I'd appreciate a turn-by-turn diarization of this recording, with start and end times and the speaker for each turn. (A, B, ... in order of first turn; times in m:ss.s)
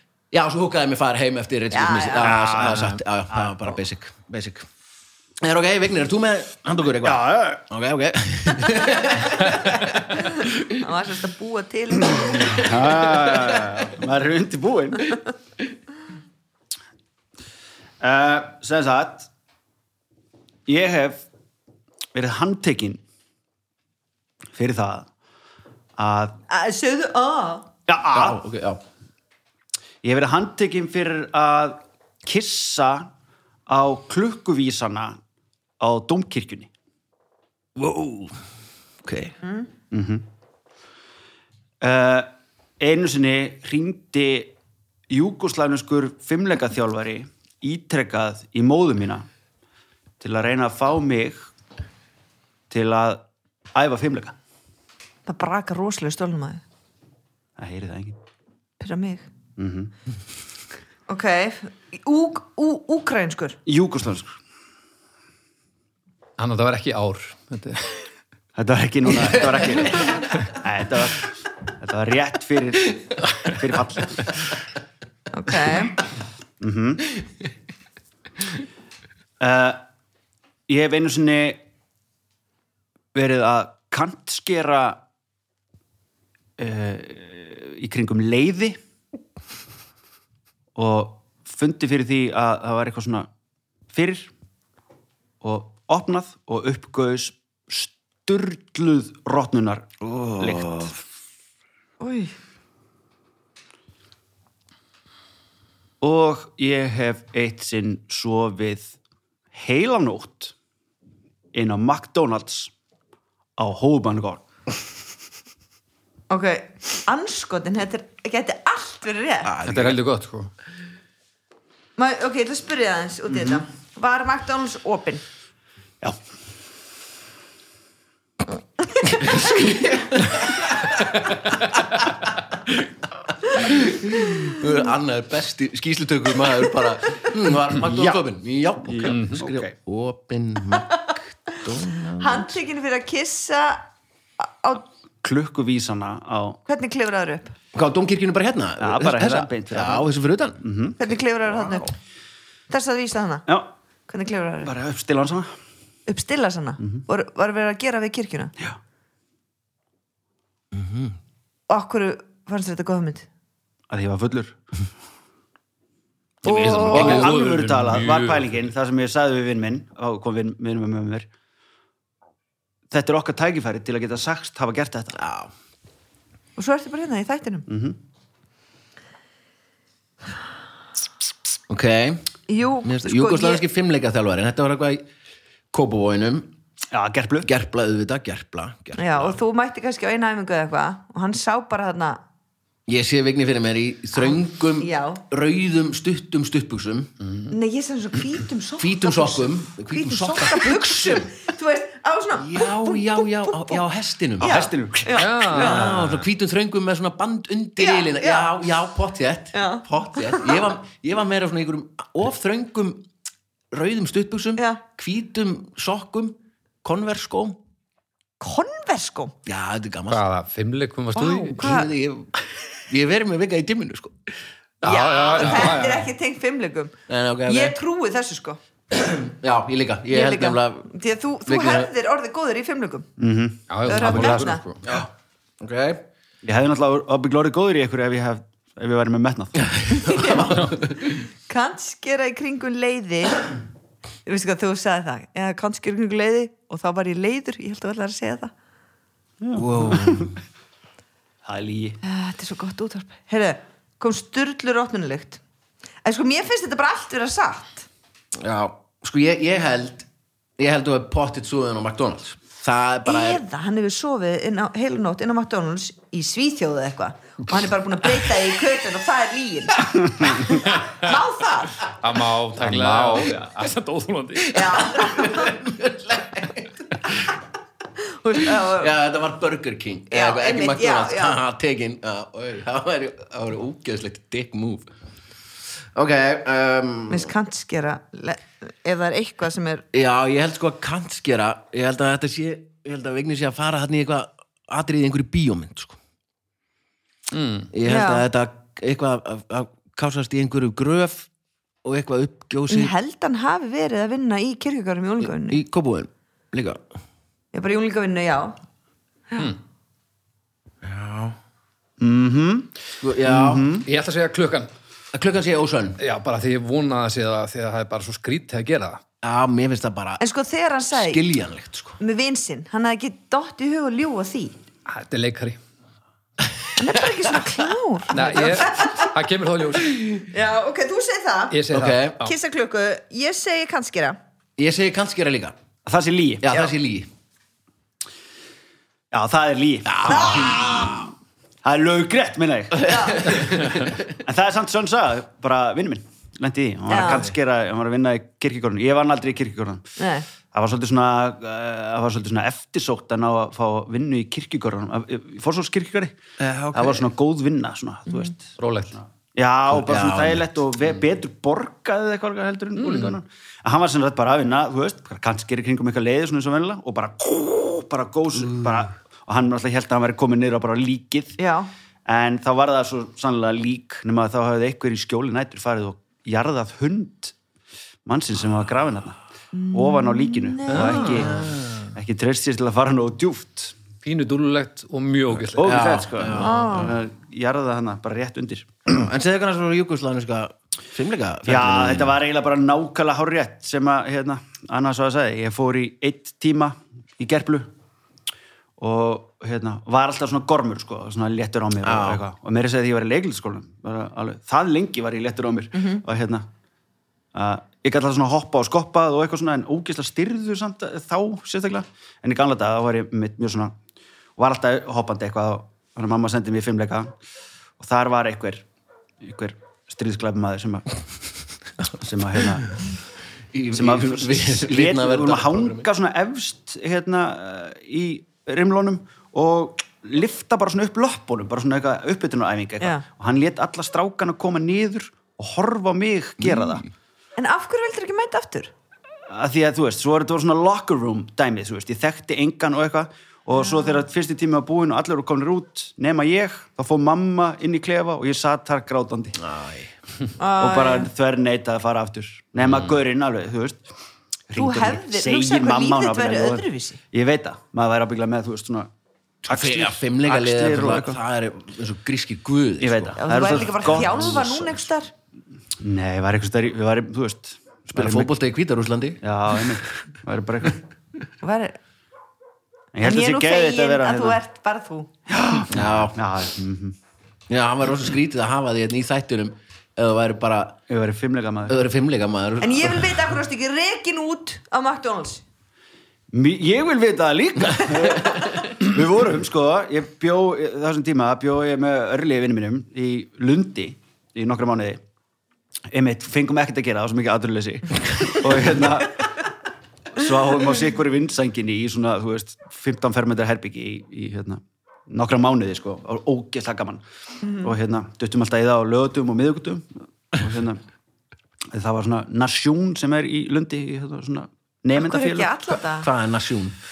0:00.3-0:04.7 A
0:01.7-0:02.4 B
0:02.2-0:03.6 C
0:05.4-0:10.7 A
0:07.0-0:07.6 C
0:10.4-0:12.7 B
0:12.4-0:15.2 C
0:18.0-0:19.3 C
0:20.7-0:21.3 C
0:22.1-0:23.0 C
0:24.5-0:25.1 C
0:26.0-0:26.4 C
0:26.5-0:27.7 B
0:27.9-0:28.4 C
0:28.1-0:28.8 A
0:30.0-0:33.1 C
0:33.7-0:35.2 C
0:35.8-0:36.7 C
0:37.8-0:38.4 A
0:39.0-0:39.4 A
0:39.9-0:40.2 C
0:41.8-0:44.6 C
0:45.1-0:49.3 C
0:50.2-0:51.5 C
0:52.7-0:54.4 C
0:55.3-0:56.6 B
0:57.6-0:58.2 C
0:58.8-0:59.3 B
0:59.6-0:59.9 C
1:01.1-1:03.6 B
1:03.7-1:04.4 C
1:06.4-1:07.9 D
1:08.6-1:14.3 C
1:15.3-1:16.0 B
1:16.6-1:17.0 C
1:19.4-1:19.8 C
1:20.7-1:21.6 C
1:23.1-1:25.0 C
1:26.6-1:28.8 C
1:30.8-1:33.3 C
1:33.9-1:34.3 C
1:35.4-1:41.0 C
1:40.0-1:40.9 A
1:42.0-1:42.3 B
1:46.0-1:49.0 C
1:49.5-1:50.5 C
1:51.5-1:52.7 C
1:53.6-1:54.4 C
1:56.3-1:59.5 B
1:59.4-2:00.0 A
1:59.6-2:00.5 D
2:02.0-2:05.2 B
2:03.3-2:03.6 C
2:09.2-2:11.0 A
2:13.4-2:22.6 A
2:17.8-2:18.2 C
2:18.9-2:19.7 C
2:19.1-2:19.4 D
2:20.7-2:21.1 B
2:22.2-2:23.9 B
2:24.4-2:24.9 B
2:25.2-2:26.6 C
2:26.7-2:27.6 B
2:27.7-2:30.6 A
2:28.8-2:30.1 C
2:30.6-2:31.0 C
2:31.0-2:32.0 B
2:32.7-2:33.5 B
2:34.1-2:34.7 B
2:34.6-2:35.5 C
2:36.1-2:38.5 B
2:40.7-2:41.2 A
2:41.7-2:43.3 B
2:43.9-2:44.6 C
2:46.4-2:48.6 D
2:46.5-2:47.3 B
2:46.6-2:51.3 C
2:46.9-2:47.2 A
2:52.9-2:55.2 C
2:55.1-2:55.5 A
2:56.6-2:57.7 B
2:57.7-2:58.0 C
3:01.7-3:02.3 A
3:02.5-3:03.6 B
3:02.8-3:05.1 A
3:05.7-3:06.5 A
3:06.9-3:07.5 C
3:07.4-3:09.4 A
3:09.0-3:12.2 B
3:12.9-3:17.1 A
3:14.2-3:15.2 B
3:17.2-3:17.5 D
3:17.5-3:23.8 B
3:18.8-3:21.3 A
3:22.4-3:24.6 A
3:24.4-3:26.0 B
3:24.4-3:26.2 C
3:25.2-3:26.0 D
3:25.5-3:33.1 A
3:27.8-3:28.6 B
3:29.5-3:30.7 B
3:33.7-3:37.6 A
3:38.4-3:39.3 B
3:39.5-3:40.2 A
3:40.1-3:41.7 D
3:41.2-3:41.9 B
3:41.6-3:42.3 A
3:42.9-3:44.1 A
3:44.8-3:46.1 D
3:44.8-3:48.6 B
3:45.4-3:45.8 A
3:47.1-3:47.8 A
3:48.9-3:50.9 A
3:50.1-3:53.1 B
3:51.5-3:51.9 A
3:53.2-3:54.3 C
3:53.7-3:54.8 D
3:53.9-3:54.6 B
3:55.6-3:56.0 A
3:56.4-3:59.6 C
3:59.6-4:01.2 A
4:00.1-4:00.4 B
4:01.5-4:03.5 B
4:04.3-4:08.5 B
4:09.4-4:10.3 C
4:09.5-4:10.4 A
4:11.4-4:12.0 C
4:12.0-4:15.4 B
4:16.0-4:17.9 B
4:18.4-4:20.1 A
4:20.6-4:23.4 A
4:23.0-4:31.8 B
4:32.0-4:34.7 D
4:32.6-4:33.4 A
4:34.4-4:37.4 A
4:34.5-4:35.5 B
4:38.0-4:38.9 B
4:38.4-4:44.9 A
4:40.1-4:41.4 B
4:45.9-4:47.3 A
4:47.1-4:49.8 B
4:49.9-4:56.0 A
4:57.3-4:57.7 D
4:57.7-5:01.3 A
4:57.8-4:58.2 B
5:01.8-5:02.9 A
5:02.7-5:05.6 B
5:05.2-5:06.8 A
5:07.5-5:08.6 B
5:10.8-5:11.4 A
5:12.0-5:13.9 C
5:13.0-5:13.8 A
5:13.8-5:14.7 D
5:15.1-5:16.0 A
5:16.0-5:19.0 D
5:19.2-5:20.2 A
5:20.2-5:21.2 B
5:20.9-5:22.0 A
5:22.0-5:24.6 B
5:24.9-5:25.6 D
5:26.8-5:29.1 B
5:28.1-5:30.2 D
5:30.3-5:31.6 B
5:31.5-5:32.3 D
5:31.7-5:32.2 A
5:32.2-5:34.2 B
5:34.6-5:35.6 A
5:35.9-5:36.6 C
5:36.4-5:37.1 A
5:39.1-5:40.8 C
5:39.9-5:41.1 A
5:40.1-5:41.0 B
5:41.6-5:43.5 C
5:42.8-5:44.0 A
5:42.9-5:43.5 B
5:44.1-5:49.9 C
5:46.9-5:47.3 B
5:50.0-5:50.3 B
5:50.5-5:56.2 C
5:56.4-5:57.1 A
5:56.7-6:11.4 C
5:58.6-5:59.0 D
5:59.7-6:00.5 A
6:02.8-6:03.1 D
6:11.4-6:11.7 B
6:12.1-6:17.4 C
6:18.1-6:19.2 C
6:19.5-6:21.3 B
6:19.7-6:23.8 C
6:20.7-6:21.6 D
6:24.0-6:25.9 D
6:25.6-6:29.0 C
6:25.6-6:26.9 A
6:26.4-6:27.0 B
6:28.9-6:32.2 A
6:31.5-6:37.7 C
6:38.8-6:46.5 C
6:41.8-6:42.2 A
6:47.3-6:53.8 C
6:54.4-6:57.1 C
6:57.8-6:58.6 C
6:59.2-7:00.8 C
7:02.0-7:02.7 C
7:03.5-7:05.9 A
7:03.7-7:16.8 C
7:17.4-7:18.7 B
7:19.3-7:29.4 C
7:23.6-7:24.0 B
7:29.4-7:30.0 A
7:30.4-7:31.1 B
7:30.6-7:33.9 C
7:34.5-7:38.9 C
7:34.6-7:37.0 B
7:39.5-7:44.8 A
7:39.5-7:41.2 C
7:42.8-7:44.5 C
7:43.2-7:45.1 B
7:45.8-7:48.3 C
7:47.9-7:49.7 A
7:49.2-7:50.8 C
7:51.4-7:51.8 B
7:52.9-7:54.4 C
7:53.0-7:55.1 B
7:55.3-7:57.0 C
7:55.7-7:56.2 A
7:57.5-8:00.8 A
8:00.9-8:01.9 C
8:01.7-8:03.2 A
8:02.6-8:05.4 B
8:06.3-8:15.0 C
8:15.9-8:19.3 C
8:20.1-8:27.0 C
8:27.4-8:27.7 B
8:27.6-8:30.8 C
8:31.7-8:35.5 C
8:35.0-8:36.1 B
8:35.9-8:36.8 A